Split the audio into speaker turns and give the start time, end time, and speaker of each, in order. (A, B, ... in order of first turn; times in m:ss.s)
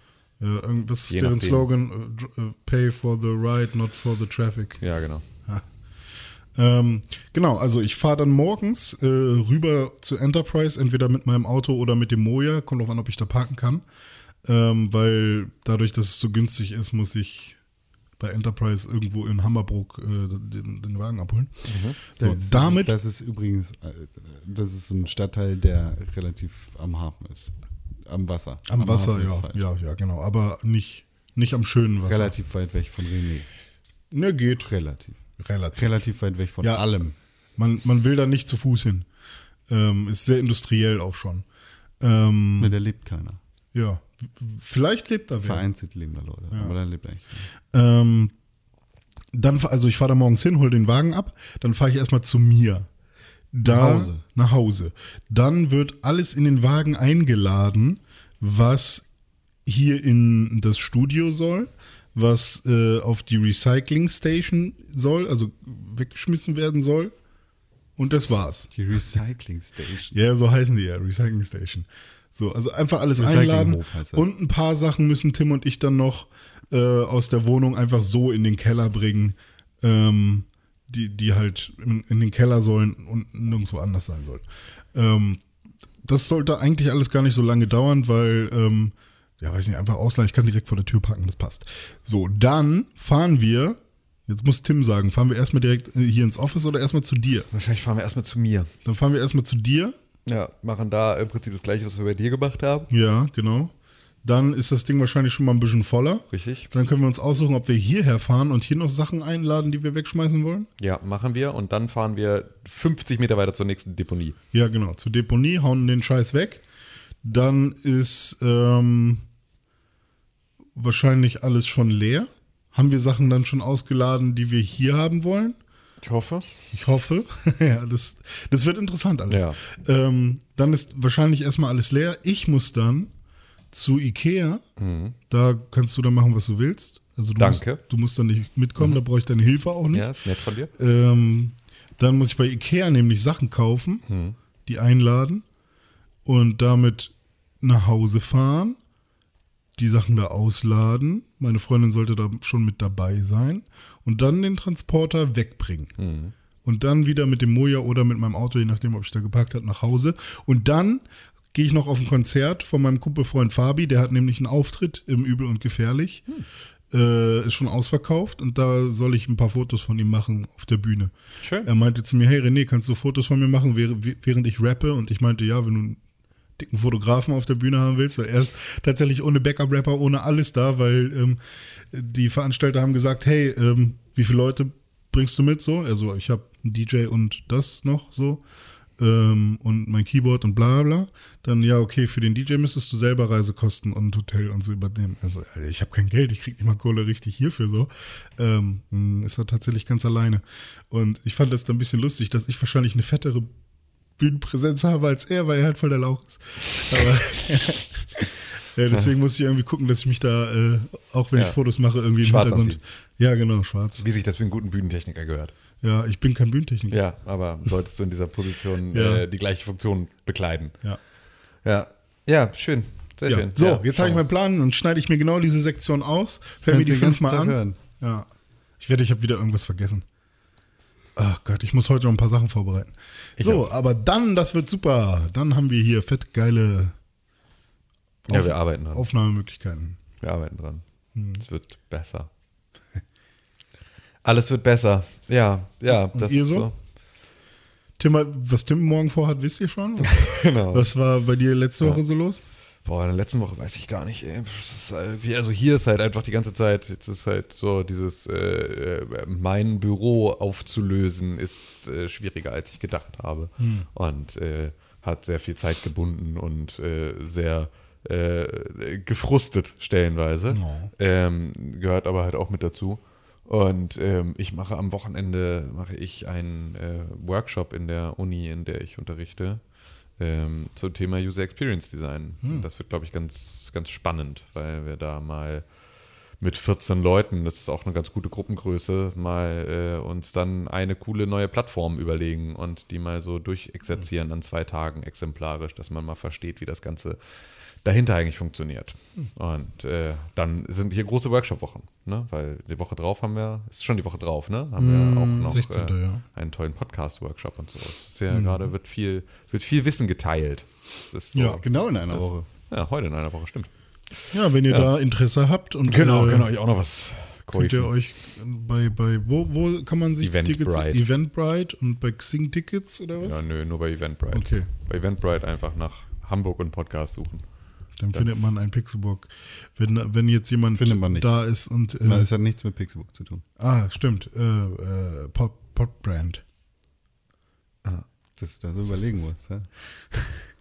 0:00.4-0:04.8 A
0:01.1-0:01.7 B
0:04.8-0:05.2 B
0:06.6-0:13.8 A
0:14.4-0:17.6 A
0:18.2-0:22.9 A
0:21.7-0:22.0 B
0:22.2-0:29.6 C
0:28.7-0:32.3 A
0:32.1-0:33.5 C
0:34.1-0:34.7 A
0:34.6-0:35.2 C
0:35.4-0:36.0 A
0:35.8-0:37.1 C
0:37.6-0:39.1 A
0:39.7-0:41.4 A
0:42.0-0:42.8 A
0:42.6-0:43.4 C
0:43.7-0:45.7 A
0:45.4-0:47.5 C
0:47.7-0:48.3 A
0:49.3-0:52.9 A
0:53.5-0:59.1 A
0:53.6-0:54.2 C
0:59.6-1:07.1 A
1:08.0-1:08.7 A
1:08.7-1:10.1 C
1:10.1-1:25.4 A
1:13.2-1:14.3 C
1:26.0-1:37.5 A
1:37.5-1:38.7 B
1:38.8-1:39.9 A
1:40.3-1:42.9 B
1:42.9-1:43.7 A
1:44.2-1:50.7 A
1:46.3-1:46.7 B
1:50.8-1:54.4 B
1:54.5-1:56.6 A
1:57.2-1:59.2 A
2:00.8-2:05.6 A
2:06.0-2:06.6 B
2:06.7-2:13.1 A
2:09.3-2:09.6 B
2:13.7-2:14.6 A
2:14.8-2:15.1 B
2:15.3-2:20.1 A
2:17.4-2:17.8 B
2:19.9-2:20.7 B
2:20.8-2:24.0 A
2:24.1-2:24.4 B
2:24.6-2:25.4 A
2:26.2-2:28.8 A
2:29.8-2:35.9 A
2:36.0-2:36.3 B
2:36.6-2:46.2 A
2:46.9-2:51.1 A
2:51.4-2:51.7 B
2:51.6-2:56.0 A
2:56.6-3:01.4 A
3:01.9-3:08.4 A
3:09.0-3:23.5 A
3:24.2-3:34.0 A
3:32.2-3:32.8 B
3:34.0-3:35.5 B
3:35.8-3:37.0 A
3:36.9-3:40.8 B
3:38.9-3:39.2 A
3:41.6-3:44.2 B
3:43.3-3:48.3 A
3:46.7-3:47.8 C
3:48.8-3:50.0 A
3:51.2-3:57.0 A
3:53.4-3:53.7 B
3:58.3-4:00.0 A
3:58.3-3:59.1 B
4:00.2-4:00.8 B
4:01.1-4:01.4 A
4:01.4-4:02.3 B
4:04.2-4:06.7 B
4:05.9-4:06.7 A
4:08.0-4:12.4 A
4:10.0-4:10.9 B
4:12.8-4:39.6 B
4:23.6-4:23.9 A
4:30.5-4:30.9 A
4:40.2-4:45.7 B
4:46.4-5:14.9 B
5:04.8-5:05.6 C
5:05.3-5:06.2 A
5:08.3-5:08.7 A
5:11.3-5:11.6 A
5:11.6-5:12.5 C
5:14.3-5:16.5 A
5:15.9-5:17.9 B
5:17.5-5:23.4 A
5:20.2-5:21.1 B
5:23.2-5:27.4 B
5:24.3-5:24.7 A
5:28.0-5:32.3 A
5:30.8-5:31.3 C
5:32.0-5:33.4 C
5:33.6-5:36.4 A
5:38.4-5:39.7 C